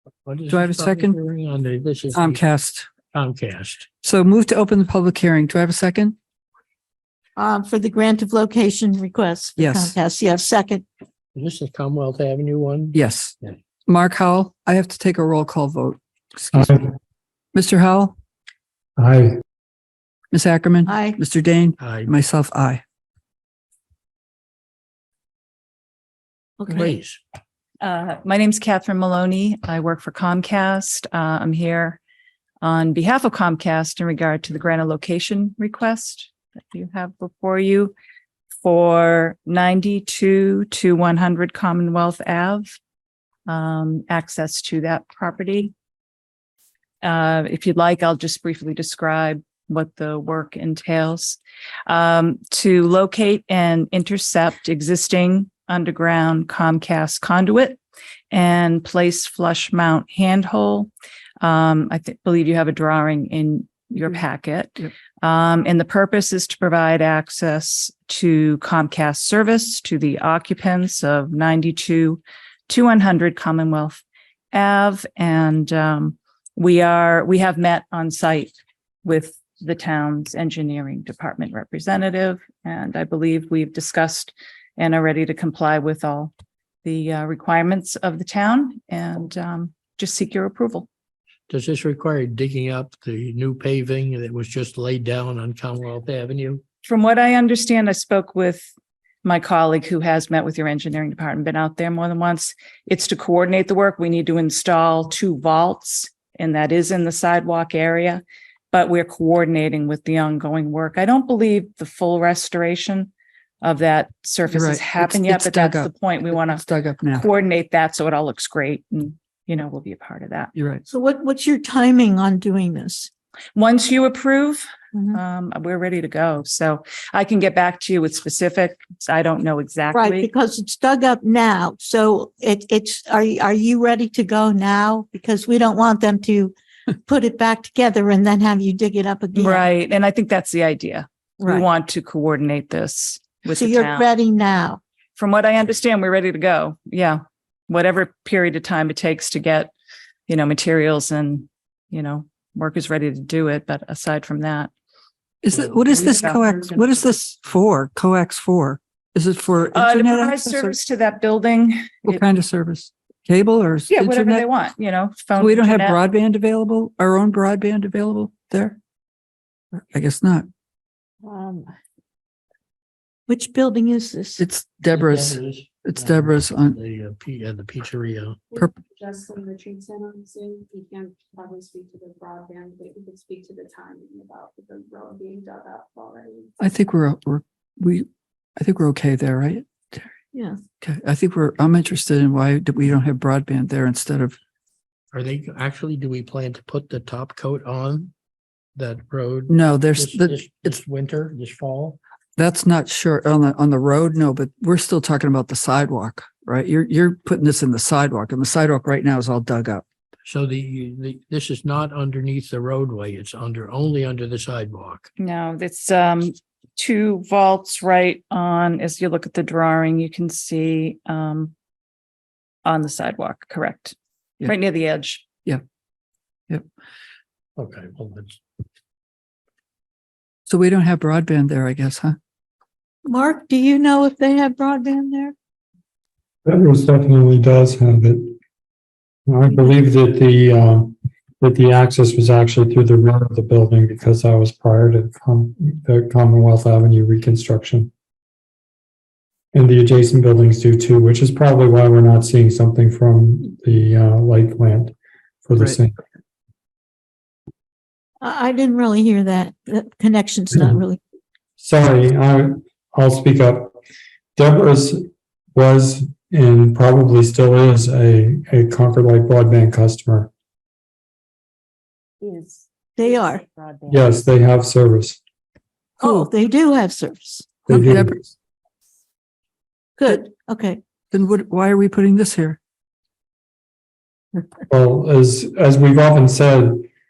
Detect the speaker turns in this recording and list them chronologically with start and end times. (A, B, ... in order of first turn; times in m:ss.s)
0:00.2-0:02.4 A
0:00.5-0:01.2 B
0:02.1-0:02.9 B
0:03.1-0:03.9 A
0:04.0-0:06.2 B
0:07.4-0:10.8 C
0:09.6-0:10.0 B
0:11.4-0:13.6 A
0:12.9-0:13.3 B
0:13.9-0:16.8 B
0:16.5-0:16.9 D
0:17.5-0:18.2 B
0:19.0-0:19.4 D
0:20.3-0:22.8 B
0:20.9-0:21.2 C
0:21.8-0:22.1 A
0:26.6-0:27.0 C
0:26.7-0:27.2 A
0:27.8-0:32.0 E
0:32.6-0:37.9 E
0:38.6-0:42.7 E
0:43.5-0:45.7 E
0:47.0-0:57.8 E
0:58.3-1:26.3 E
1:26.8-1:30.9 E
1:31.5-1:36.6 A
1:36.8-1:38.7 E
1:39.2-1:53.1 E
1:53.6-1:56.6 E
1:54.5-1:57.3 B
1:57.2-2:00.5 E
2:00.6-2:00.8 B
2:00.9-2:03.1 C
2:03.6-2:10.3 E
2:04.9-2:05.2 C
2:09.9-2:19.7 C
2:19.4-2:24.1 E
2:21.4-2:21.7 C
2:23.5-2:24.8 C
2:25.2-2:29.7 E
2:30.3-2:34.7 E
2:35.4-2:40.8 B
2:35.5-2:37.1 E
2:39.7-2:42.2 E
2:42.0-2:44.5 B
2:43.9-2:46.0 E
2:45.4-2:48.8 B
2:49.8-2:50.5 B
2:53.3-2:54.4 C
2:54.4-2:56.8 B
2:54.9-2:58.4 A
2:58.5-3:06.6 F
3:06.6-3:10.2 B
3:10.3-3:10.6 C
3:10.8-3:14.4 B
3:15.1-3:18.1 A
3:18.8-3:22.0 A
3:19.5-3:20.7 B
3:22.4-3:29.8 B
3:30.3-3:35.1 A
3:35.2-3:41.5 E
3:42.6-3:45.3 E
3:47.6-3:48.4 A
3:50.5-3:52.2 B
3:53.0-3:55.4 C
3:56.4-3:58.3 D
3:59.3-4:07.9 D
4:09.5-4:16.0 D
4:18.2-4:21.0 C
4:20.5-4:20.8 D
4:21.6-4:23.8 D
4:24.4-4:30.3 D
4:33.0-4:33.4 C
4:33.9-4:35.2 D
4:36.0-4:37.5 C
4:36.0-4:36.3 B
4:37.7-4:38.3 B
4:37.7-4:38.2 D
4:40.0-4:40.8 C
4:41.1-4:42.6 B
4:44.7-4:46.8 D